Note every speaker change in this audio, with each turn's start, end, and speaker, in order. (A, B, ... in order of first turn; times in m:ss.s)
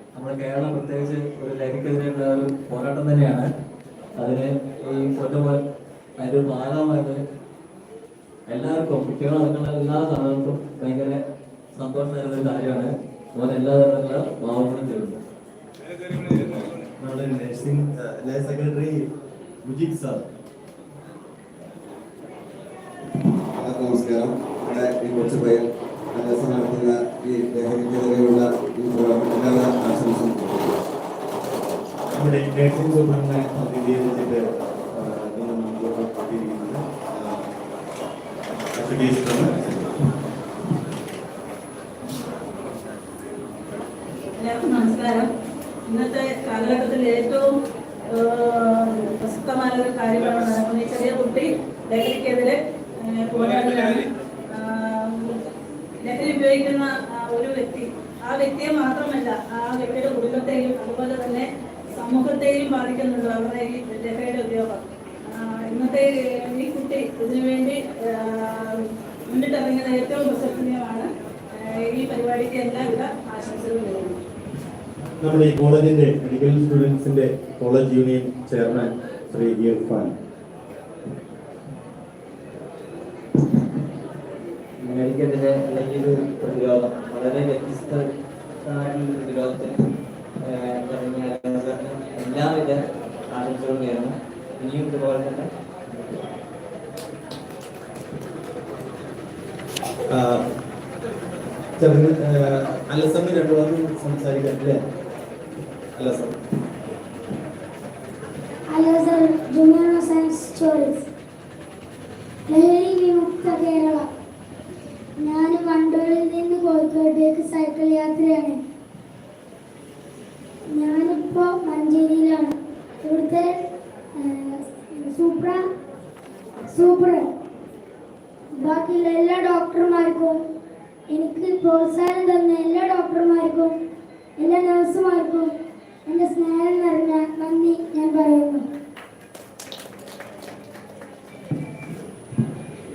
0:00.1-0:03.4 A
0:04.2-0:05.6 A
0:06.2-0:07.2 A
0:08.5-0:11.2 A
0:11.7-0:15.2 A
0:16.2-0:19.1 B
0:19.6-0:20.2 B
0:23.6-0:30.8 C
0:32.1-0:37.5 B
0:38.7-0:39.9 B
0:44.4-0:45.3 D
0:45.9-0:47.5 D
0:48.1-0:55.4 D
0:56.0-1:14.2 D
1:15.2-1:20.1 B
1:24.8-1:28.0 A
1:28.6-1:29.8 A
1:30.4-1:36.2 A
1:40.1-1:40.4 B
1:41.8-1:44.8 B
1:45.9-1:46.4 B
1:48.7-1:51.1 E
1:52.5-1:54.1 E
1:55.2-1:58.6 E
2:00.7-2:03.6 E
2:04.1-2:05.6 E
2:06.7-2:07.3 E
2:08.6-2:10.4 E
2:11.1-2:13.8 E
2:14.4-2:15.5 E
2:16.0-2:18.6 E